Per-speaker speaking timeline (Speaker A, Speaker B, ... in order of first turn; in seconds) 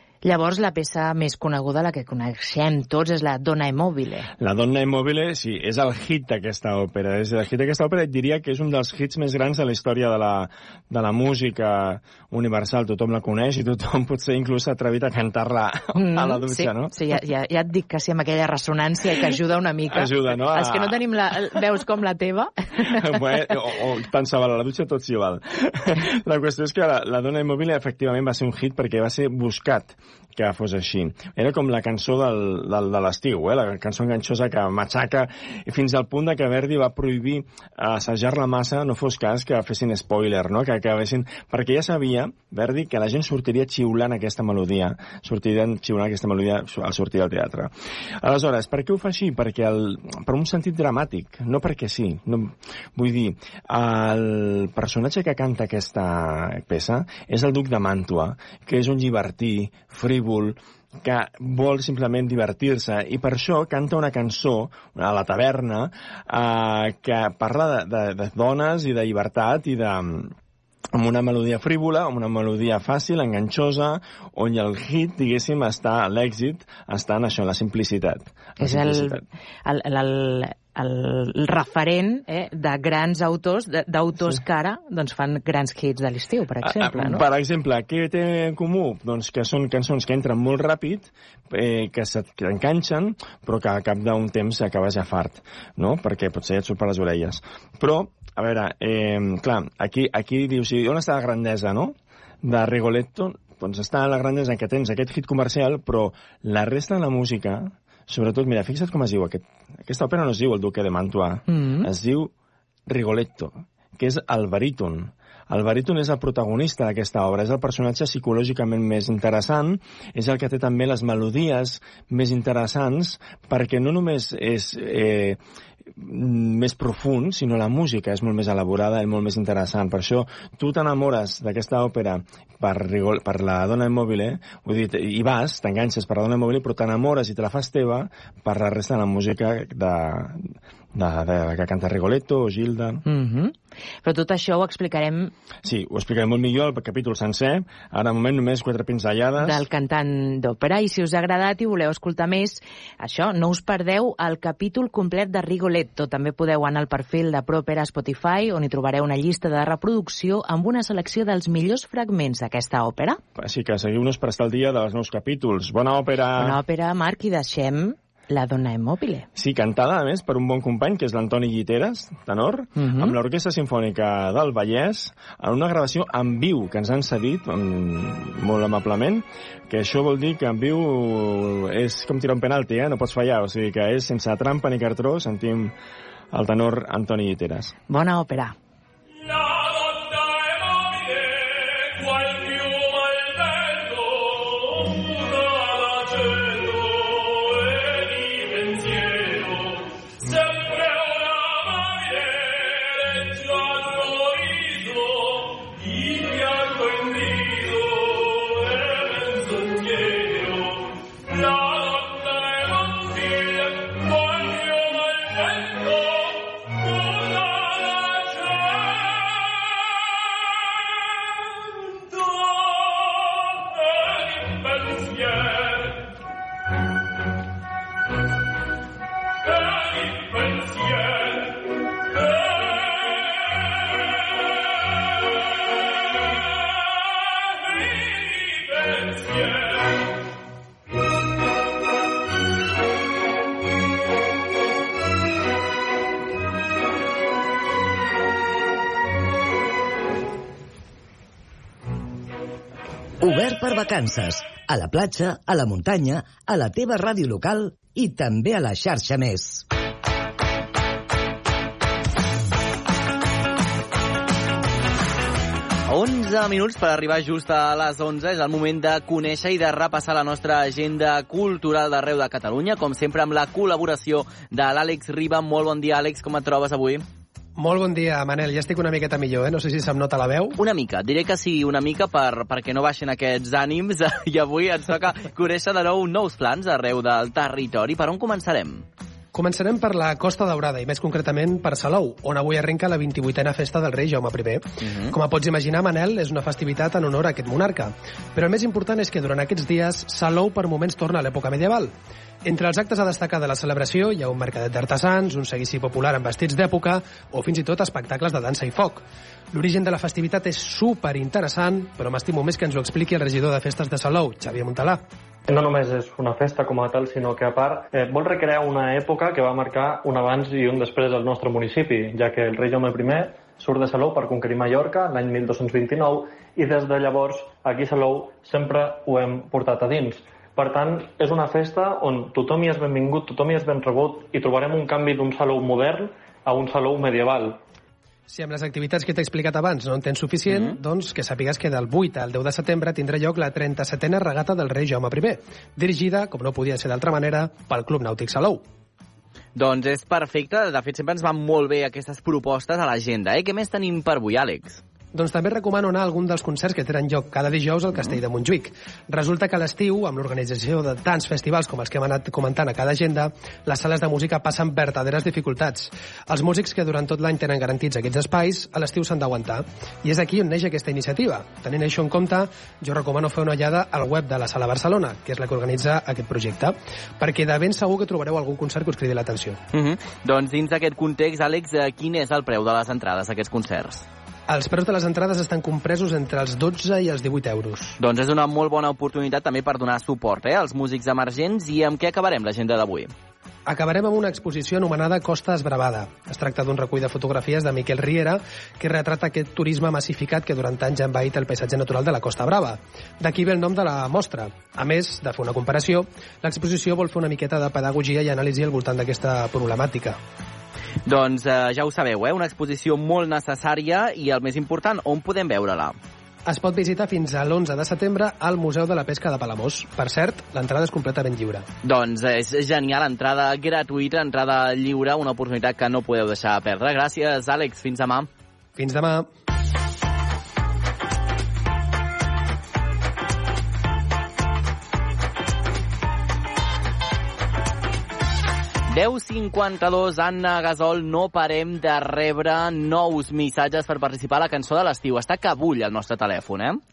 Speaker A: 0.2-4.3, 15.9-23.6, 78.6-87.2, 111.5-111.9, 143.1-145.3, 149.4-163.2, 166.4-169.3, 172.8-173.2, 187.9-188.6
Speaker B: 4.4-17.0, 19.2-21.6, 22.9-70.3, 70.9-79.2, 86.6-112.3, 112.9-125.4, 125.9-143.0, 145.7-149.7, 163.4-166.6, 169.3-185.7, 186.3-187.8
Speaker C: 253.2-259.6
Speaker D: 265.9-277.0, 280.6-288.9, 294.8-295.1, 340.5-340.8, 349.6-354.8, 379.7-384.1, 388.0-393.1, 411.1-416.0, 421.8-428.3, 438.9-446.8
Speaker E: 277.6-280.6, 289.3-315.0, 338.3-348.6, 355.1-379.6, 384.5-388.0, 393.7-410.2, 416.5-421.7, 428.8-429.3
Speaker F: 315.5-337.6